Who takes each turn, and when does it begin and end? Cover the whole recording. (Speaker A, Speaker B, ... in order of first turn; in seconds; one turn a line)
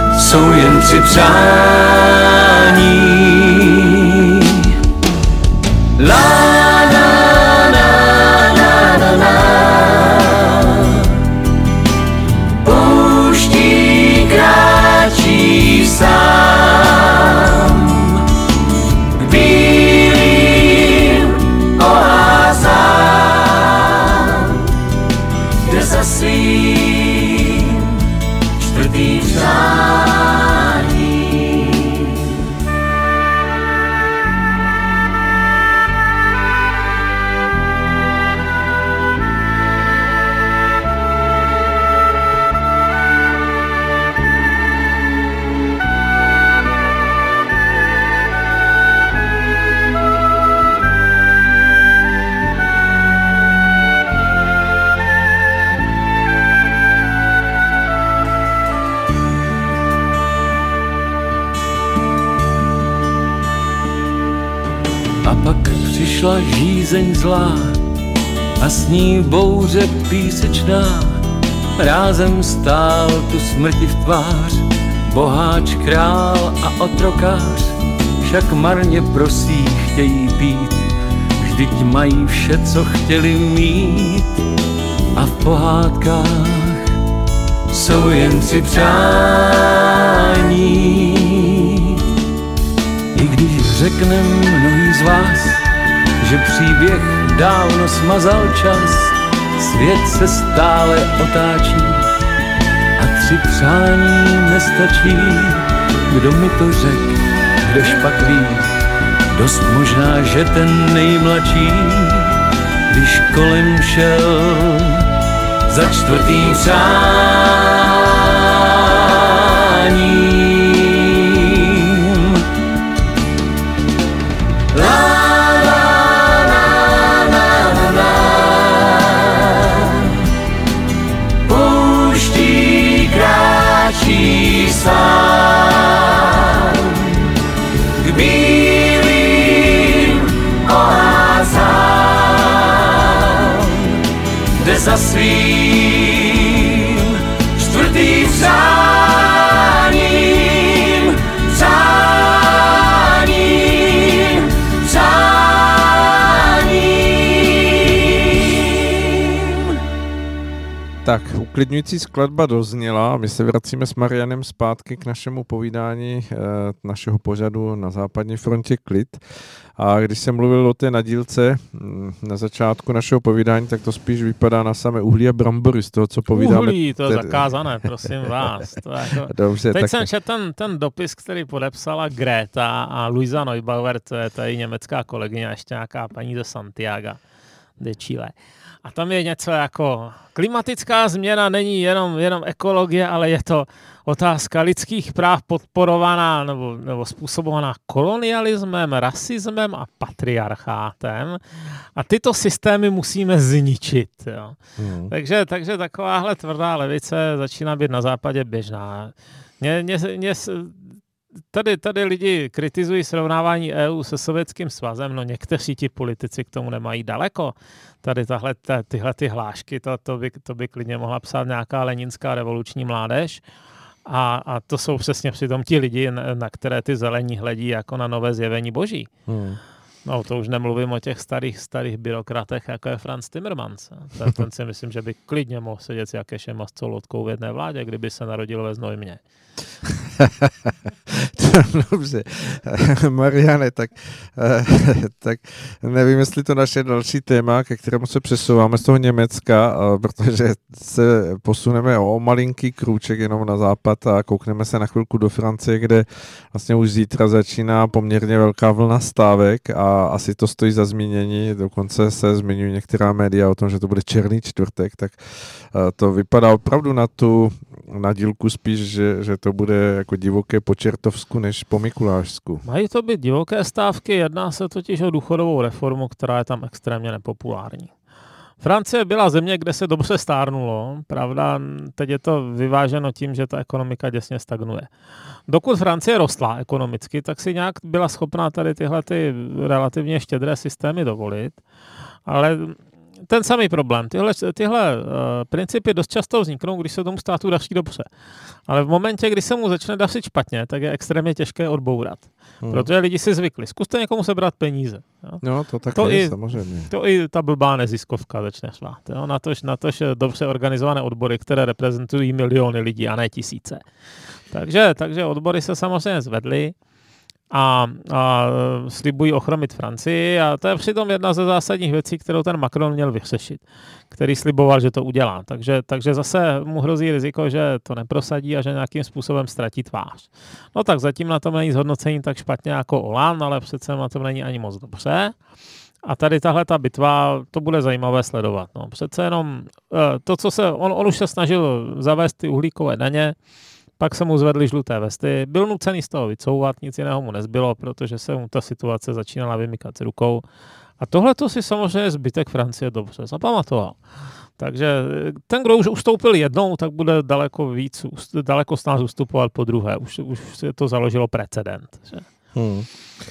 Speaker A: 0.2-2.0
Speaker A: 2.8-3.2
Speaker A: 65.3-67.6
Speaker A: 68.8-71.0
Speaker A: 71.8-74.5
Speaker A: 75.2-77.7
Speaker A: 78.3-80.8
Speaker A: 81.6-84.2
Speaker A: 85.3-86.2
Speaker A: 93.5-95.5
Speaker A: 96.5-99.1
Speaker A: 99.8-101.9
Speaker A: 103.5-104.3
Speaker A: 105.0-105.5
Speaker A: 106.3-107.1
Speaker A: 107.8-108.5
Speaker A: 109.5-111.5
Speaker A: 113.0-114.2
Speaker B: 161.0-178.1
Speaker C: 176.3-187.2
Speaker B: 179.2-180.1
Speaker C: 187.8-201.4
Speaker C: 201.9-204.6
Speaker B: 204.8-205.1
Speaker C: 205.1-210.8
Speaker C: 211.5-223.4
Speaker C: 224.1-229.3
Speaker B: 229.3-229.6
Speaker C: 230.1-239.2
Speaker B: 241.2-272.6
Speaker C: 272.6-277.9
Speaker C: 278.6-284.9
Speaker C: 285.5-291.6
Speaker C: 292.3-298.1
Speaker C: 298.7-313.8
Speaker B: 302.6-302.9
Speaker B: 305.4-306.9
Speaker C: 314.5-316.8
Speaker C: 317.5-335.4
Speaker C: 336.0-343.4
Speaker C: 344.0-350.4
Speaker C: 351.0-354.0
Speaker C: 354.6-362.5
Speaker B: 362.5-362.9